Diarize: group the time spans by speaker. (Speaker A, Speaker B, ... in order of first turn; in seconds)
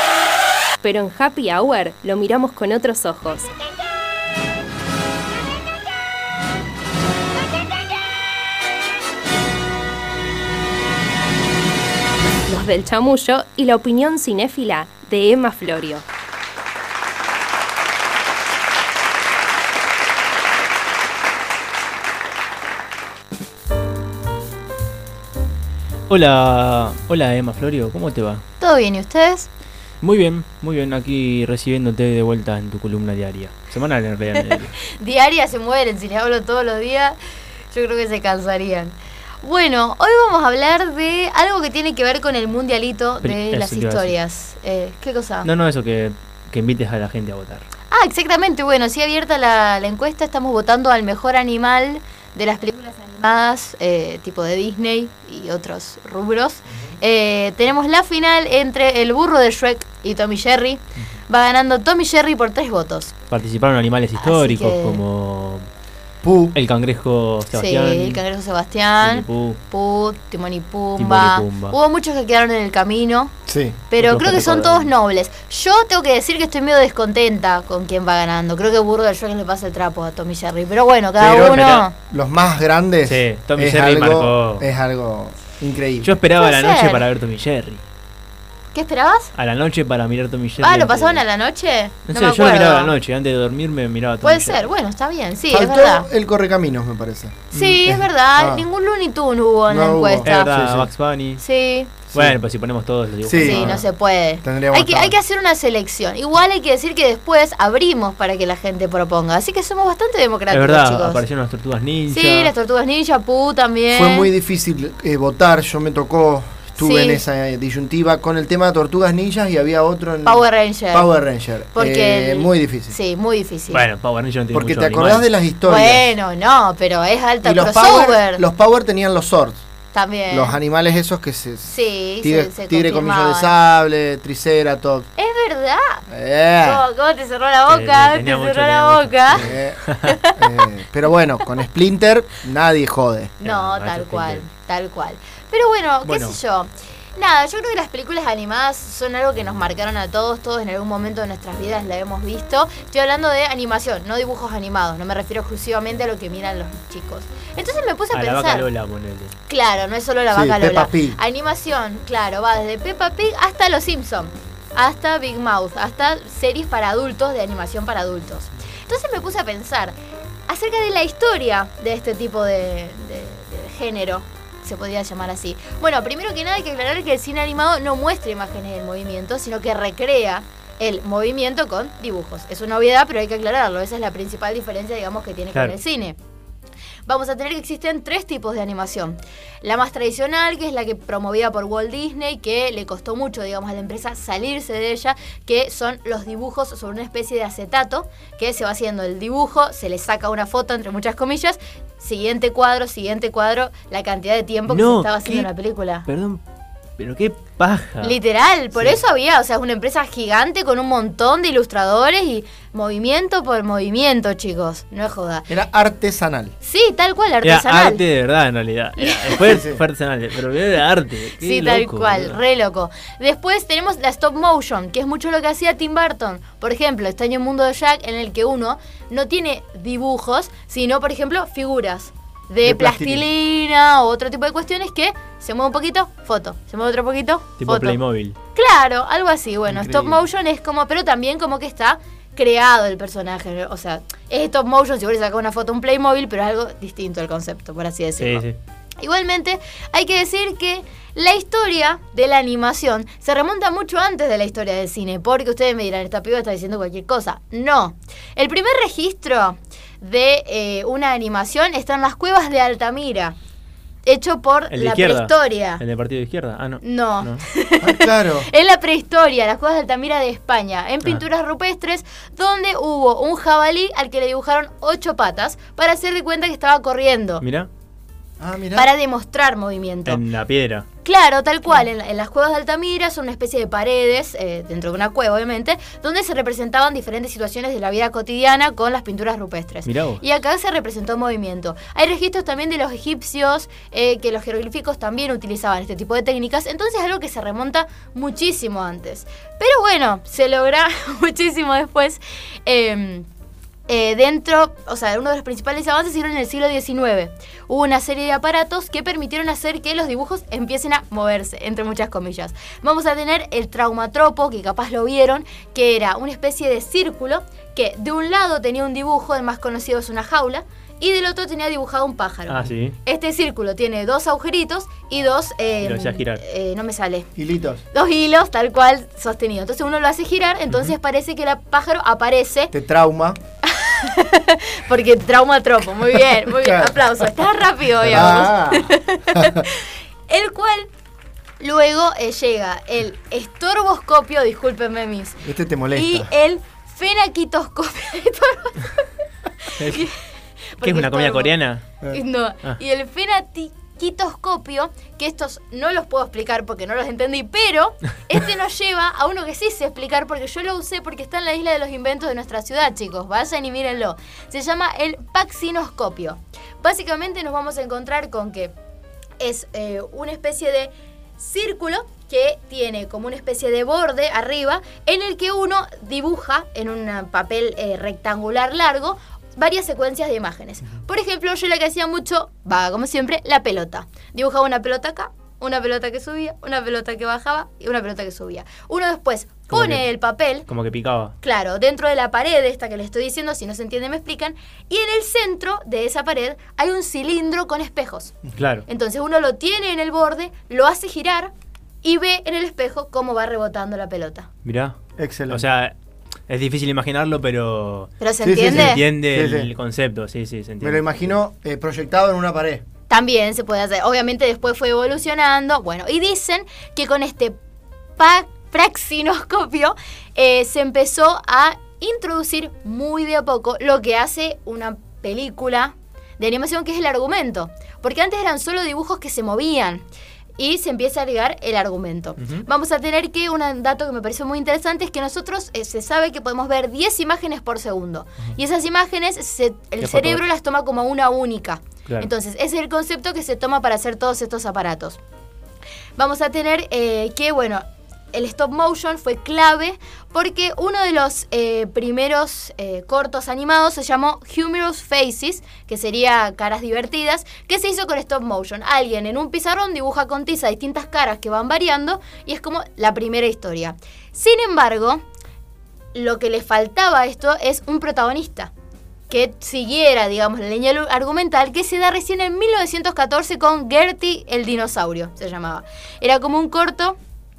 Speaker A: 0.8-3.5, 12.5-16.1
Speaker B: 26.1-28.4, 30.0-34.8, 43.2-44.1, 45.4-47.7, 63.3-65.7, 66.5-68.2, 69.0-69.6, 71.0-71.8, 74.0-74.9, 81.2-81.9, 83.1-84.7, 86.0-87.8, 89.3-91.2, 92.1-94.7, 97.5-97.8, 100.2-101.4, 102.1-103.8, 110.5-112.5, 123.7-125.3, 137.7-140.2, 143.4-144.4, 146.1-146.4, 158.1-159.3, 204.7-205.5, 206.1-206.4, 207.0-208.2, 217.4-222.4, 237.6-238.4, 248.2-248.6, 264.7-267.4, 277.4-277.7, 280.1-280.9, 289.9-290.2, 322.5-323.0, 325.8-326.4, 349.8-350.1, 350.8-351.8, 389.7-390.1, 390.7-391.3, 398.6-398.8, 404.6-405.0, 405.5-405.9, 406.5-408.1, 408.6-411.4, 432.4-432.6, 440.0-440.4
Speaker C: 28.6-29.5, 34.4-37.2, 37.7-45.5, 47.9-63.1, 64.2-65.0, 67.5-73.3, 73.9-82.0, 86.4-87.1, 88.7-89.3, 90.6-93.0, 94.2-96.1, 97.5-100.8, 101.4-101.9, 103.4-111.2, 112.1-114.3, 116.8-117.2, 120.2-121.1, 121.7-123.9, 125.7-128.4, 129.9-130.6, 131.7-133.6, 135.2-136.1, 136.6-139.5, 140.0-140.7, 143.4-158.7, 159.5-170.0, 170.5-186.2, 187.1-206.1, 208.0-215.5, 216.6-218.0, 219.0-219.4, 221.4-238.0, 238.5-248.4, 249.0-263.4, 264.1-265.8, 266.8-277.4, 278.7-280.2, 281.1-303.3, 303.9-327.3, 327.9-332.7, 333.6-340.9, 341.6-349.1, 349.6-350.2, 350.8-351.6, 352.1-368.7, 369.4-390.7, 391.4-398.4, 398.9-401.5, 402.0-404.5, 408.2-409.1, 413.1-417.6, 418.2-430.0, 430.6-445.2, 446.2-465.2, 466.1-468.7, 469.3-477.2
Speaker D: 66.2-66.6, 73.5-73.8, 81.2-86.2, 95.5-98.7, 99.7-100.8, 102.1-102.4, 103.2-103.8, 104.4-105.2, 113.9-122.9, 124.5-126.1, 127.4-129.7, 130.3-135.1, 136.1-136.8, 139.3-139.8, 140.4-143.3, 160.3-161.2, 215.5-216.5, 219.4-219.8, 232.6-233.3, 239.7-240.2, 267.8-268.5, 278.4-278.9, 327.4-327.8, 332.7-333.4, 336.5-337.0, 338.0-339.6, 345.4-346.3, 405.2-405.6, 408.4-409.7, 410.8-412.8